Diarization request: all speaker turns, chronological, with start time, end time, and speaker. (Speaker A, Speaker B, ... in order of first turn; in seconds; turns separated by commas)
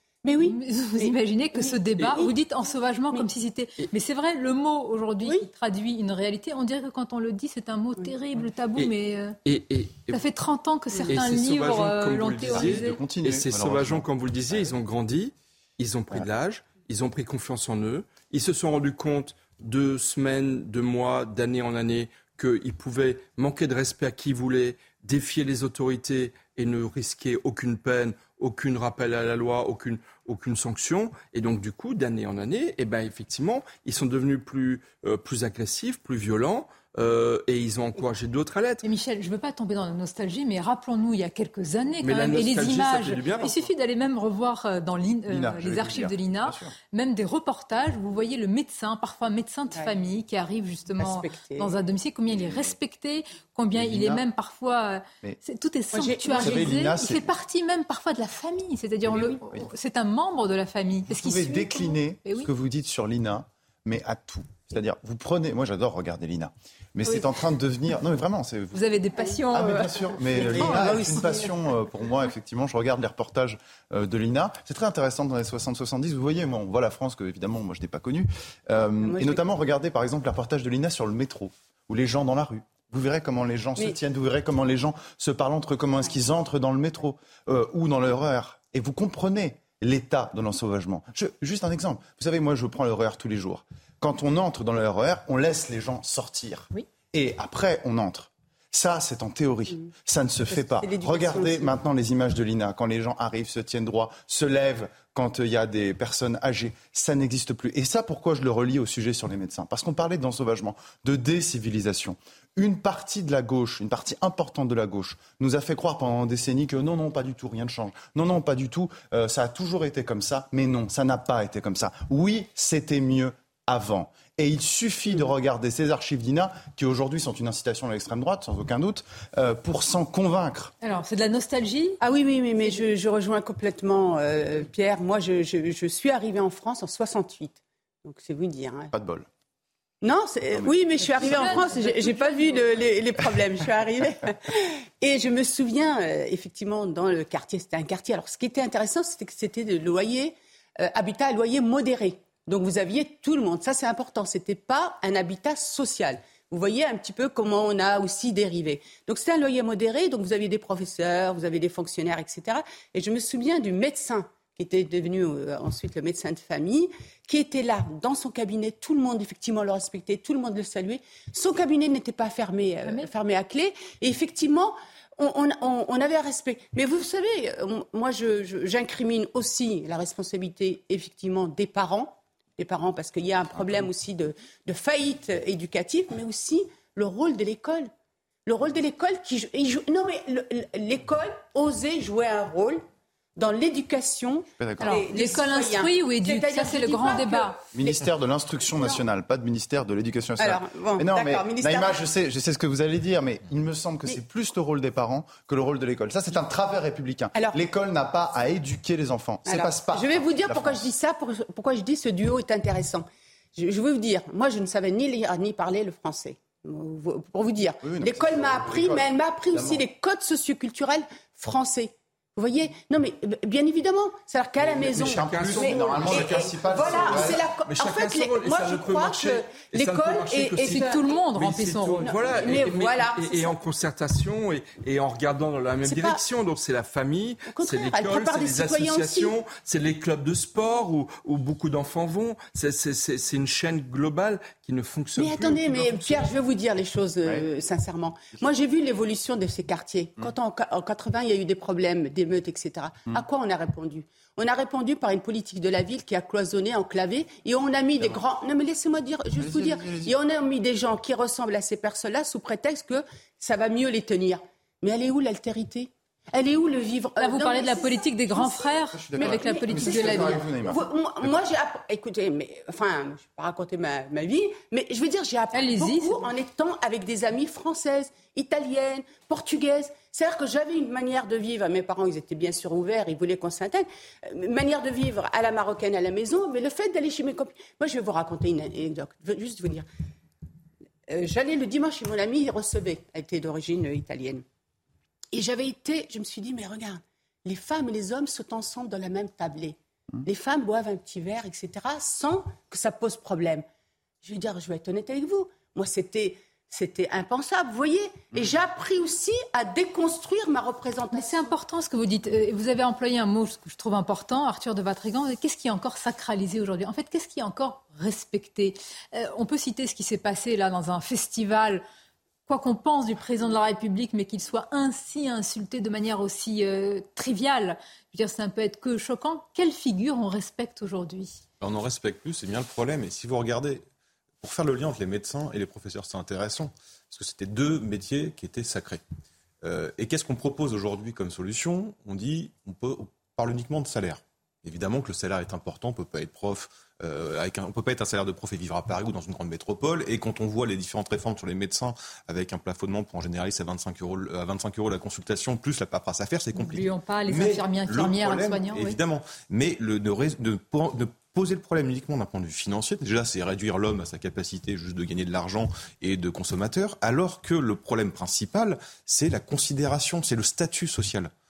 Speaker A: 0.2-2.3, Speaker B: 0.4-9.3, Speaker C: 9.4-10.2, Speaker B: 10.1-12.9, Speaker C: 11.1-38.8, Speaker D: 12.5-14.7, Speaker B: 38.8-62.5, Speaker C: 42.0-43.7, Speaker D: 45.3-46.7, Speaker A: 51.0-51.7, Speaker D: 53.7-54.2, Speaker A: 55.9-56.9, Speaker D: 56.4-57.3, Speaker D: 59.1-59.6, Speaker D: 61.1-68.8, Speaker B: 68.7-71.3, Speaker D: 69.5-130.7, Speaker A: 70.2-71.6, Speaker A: 79.0-79.4, Speaker A: 100.5-101.7, Speaker B: 130.8-132.0, Speaker A: 132.0-138.9, Speaker D: 138.9-139.3, Speaker A: 140.0-187.9, Speaker D: 140.5-141.6, Speaker B: 141.2-142.9, Speaker B: 172.8-173.1, Speaker D: 183.5-183.9, Speaker A: 188.4-192.8, Speaker A: 193.3-198.0, Speaker D: 194.6-195.0, Speaker B: 194.8-197.6, Speaker D: 197.7-210.9, Speaker A: 198.8-199.0, Speaker A: 200.4-202.0, Speaker A: 209.5-231.1, Speaker D: 217.8-219.8, Speaker C: 224.6-246.3, Speaker D: 224.9-227.4, Speaker B: 230.7-232.1, Speaker A: 232.0-233.5, Speaker A: 235.8-236.2, Speaker A: 237.5-239.3, Speaker A: 245.2-289.9, Speaker D: 259.3-260.1, Speaker B: 267.2-270.4, Speaker D: 268.9-270.8, Speaker B: 275.5-276.2, Speaker A: 291.1-294.4, Speaker A: 295.3-303.6, Speaker A: 304.2-311.5, Speaker B: 311.1-321.8, Speaker B: 322.5-331.4, Speaker E: 331.6-333.8, Speaker E: 334.4-339.0, Speaker E: 339.6-371.3, Speaker B: 356.5-359.0